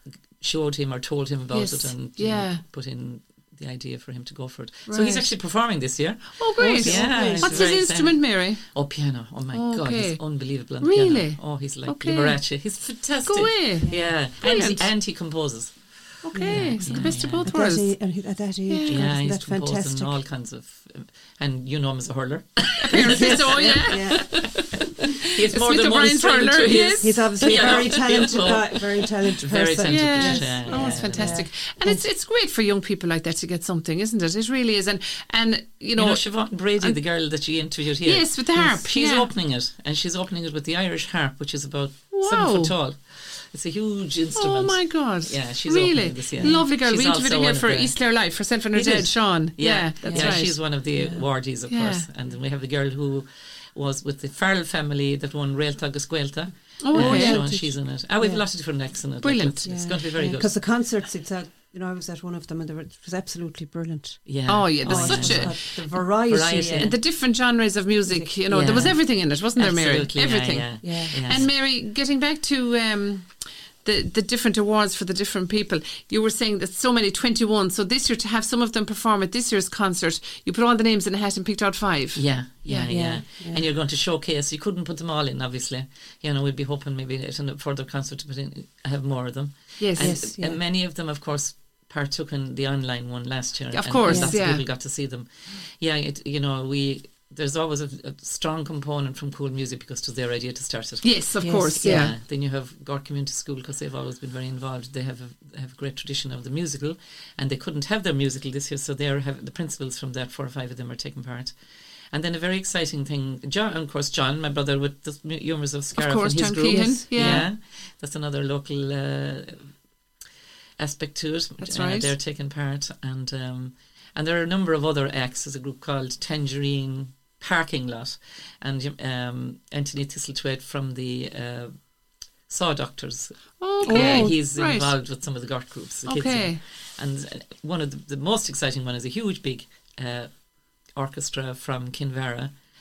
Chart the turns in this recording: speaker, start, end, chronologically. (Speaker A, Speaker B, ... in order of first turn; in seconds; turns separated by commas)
Speaker A: 0.4-17.5, Speaker B: 1.5-2.6, Speaker B: 4.9-5.4, Speaker B: 6.4-8.9, Speaker C: 6.6-7.8, Speaker B: 9.5-14.8, Speaker C: 13.8-14.2, Speaker B: 16.2-17.9, Speaker C: 16.3-20.2, Speaker B: 18.7-19.1, Speaker A: 18.9-23.8, Speaker B: 22.9-24.8, Speaker C: 23.0-24.6, Speaker A: 25.2-31.5, Speaker B: 25.5-27.2, Speaker C: 27.0-32.1, Speaker B: 29.8-37.0, Speaker A: 36.0-60.6, Speaker B: 38.0-39.3, Speaker B: 42.1-42.7, Speaker B: 44.4-50.8, Speaker C: 46.4-46.6, Speaker C: 50.0-51.4, Speaker B: 51.7-52.1, Speaker B: 56.8-57.6, Speaker C: 56.9-58.5, Speaker B: 59.2-59.9, Speaker C: 59.6-67.1, Speaker A: 64.2-67.0, Speaker B: 64.5-65.6, Speaker B: 66.8-83.1, Speaker C: 68.1-69.0, Speaker A: 68.5-71.5, Speaker C: 70.8-71.5, Speaker A: 82.1-111.5, Speaker C: 82.9-83.7, Speaker B: 89.8-90.3, Speaker C: 90.0-90.6, Speaker B: 93.7-94.6, Speaker C: 94.0-94.4, Speaker B: 101.0-102.1, Speaker C: 101.4-102.2, Speaker A: 112.1-119.7, Speaker B: 115.9-117.5, Speaker C: 116.7-117.5, Speaker A: 120.8-131.7, Speaker B: 121.6-122.1, Speaker A: 132.5-140.3, Speaker B: 133.6-134.9, Speaker C: 133.8-134.3, Speaker B: 136.1-136.6, Speaker A: 140.8-142.5